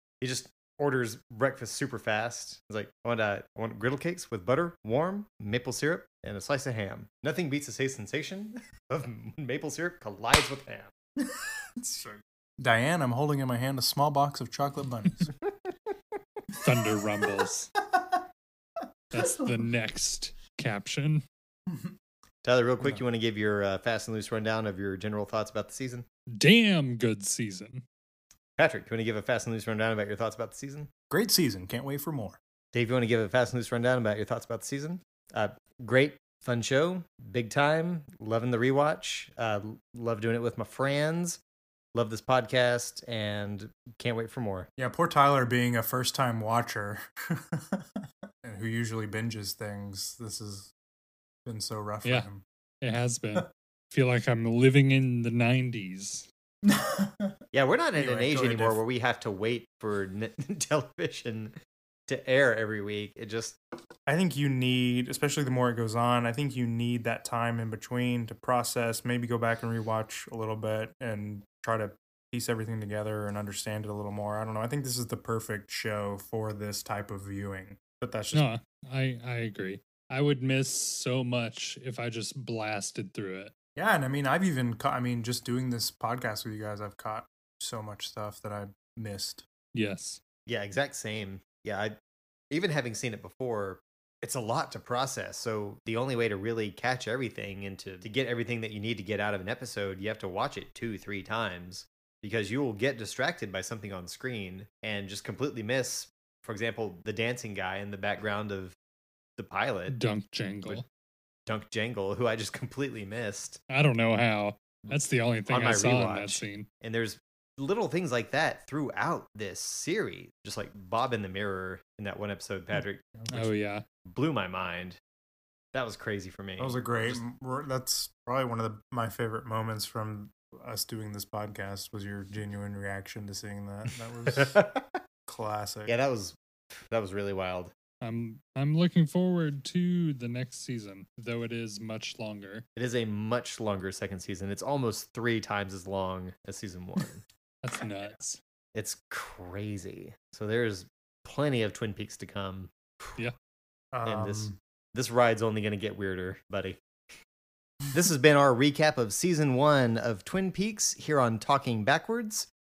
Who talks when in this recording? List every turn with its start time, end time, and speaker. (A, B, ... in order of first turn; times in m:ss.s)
0:00.2-0:10.9 A
0:11.8-0:15.3 B
0:16.6-0:17.7 C
0:19.1-0:21.2 C
0:19.1-0:19.6 B
0:22.4-0:26.0 A
0:26.3-0:27.8 C
0:28.6-0:30.9 A
0:31.1-0:32.4 B
0:32.7-0:41.4 A
0:41.9-0:44.7 A
0:44.8-0:50.7 B
0:51.4-0:52.4 B
0:52.8-0:56.3 C
0:56.6-0:57.4 B
0:57.5-1:01.6 A
0:58.0-0:58.8 B
1:02.1-1:03.6 A
1:04.1-1:18.4 B
1:18.3-1:23.5 C
1:23.8-1:29.4 B
1:29.7-1:30.2 C
1:30.4-1:32.0 A
1:32.5-1:48.8 A
1:49.4-1:50.0 A
1:49.9-1:50.8 C
1:51.5-1:53.6 A
1:53.7-1:56.7 C
1:55.5-2:03.0 A
2:03.1-2:03.5 B
2:03.3-2:03.8 C
2:04.1-2:05.0 A
2:05.7-2:07.2 A
2:06.6-2:14.6 B
2:14.3-2:15.0 A
2:15.3-2:15.9 B
2:15.9-2:17.7 A
2:18.0-2:22.6 C
2:22.7-2:27.2 A
2:27.6-2:28.4 C
2:28.7-2:33.2 A
2:33.9-2:34.6 B
2:34.0-2:36.8 A
2:37.9-2:42.5 A